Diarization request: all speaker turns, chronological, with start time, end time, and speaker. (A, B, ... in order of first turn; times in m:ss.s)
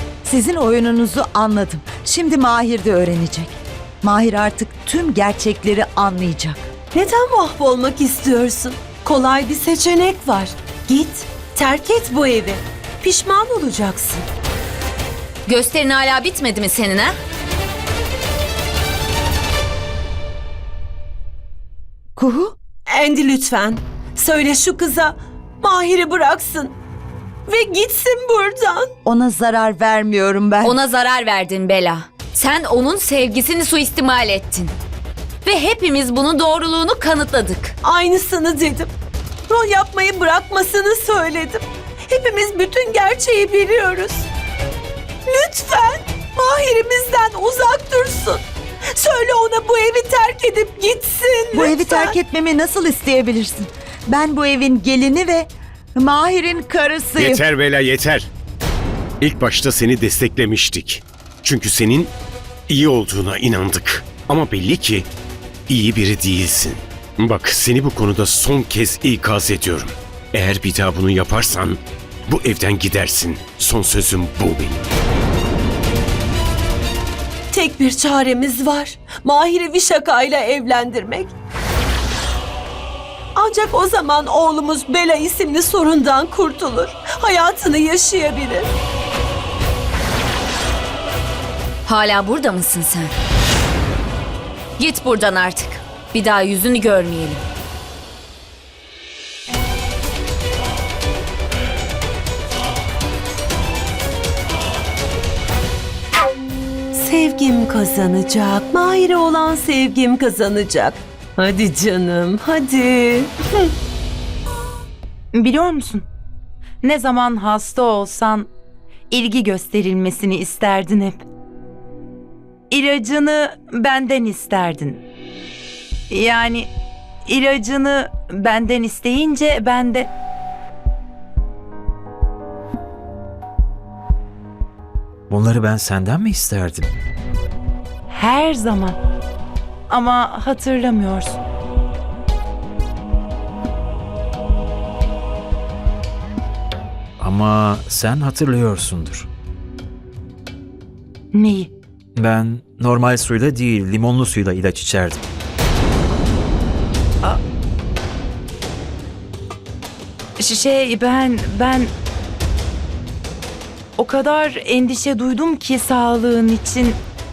0:00.2-0:06.7 A
0:06.9-0:14.2 B
0:15.4-0:17.1 C
0:22.2-0:22.6 A
0:22.9-0:26.8 B
0:27.5-0:28.9 B
0:29.0-0:30.8 A
0:30.6-0:34.7 C
0:35.4-0:37.7 C
0:37.8-0:38.9 B
0:39.5-0:44.3 B
0:45.2-0:48.4 B
0:48.9-0:52.2 B
0:51.5-0:57.4 A
0:57.2-0:58.3 D
0:59.2-1:02.1 D
1:02.7-1:05.1 D
1:05.7-1:14.8 D
1:17.5-1:21.3 B
1:23.3-1:28.7 B
1:31.8-1:33.1 C
1:34.8-1:37.4 C
1:46.9-1:53.7 B
1:55.3-1:56.0 E
1:56.8-1:58.5 E
1:59.1-2:01.2 E
2:02.7-2:05.0 E
2:06.1-2:06.7 E
2:07.2-2:10.1 E
2:15.3-2:16.9 F
2:18.1-2:19.0 E
2:19.9-2:21.4 E
2:27.2-2:29.3 F
2:31.3-2:31.7 E
2:32.2-2:35.2 F
2:40.4-2:41.9 E
2:44.0-2:47.0 E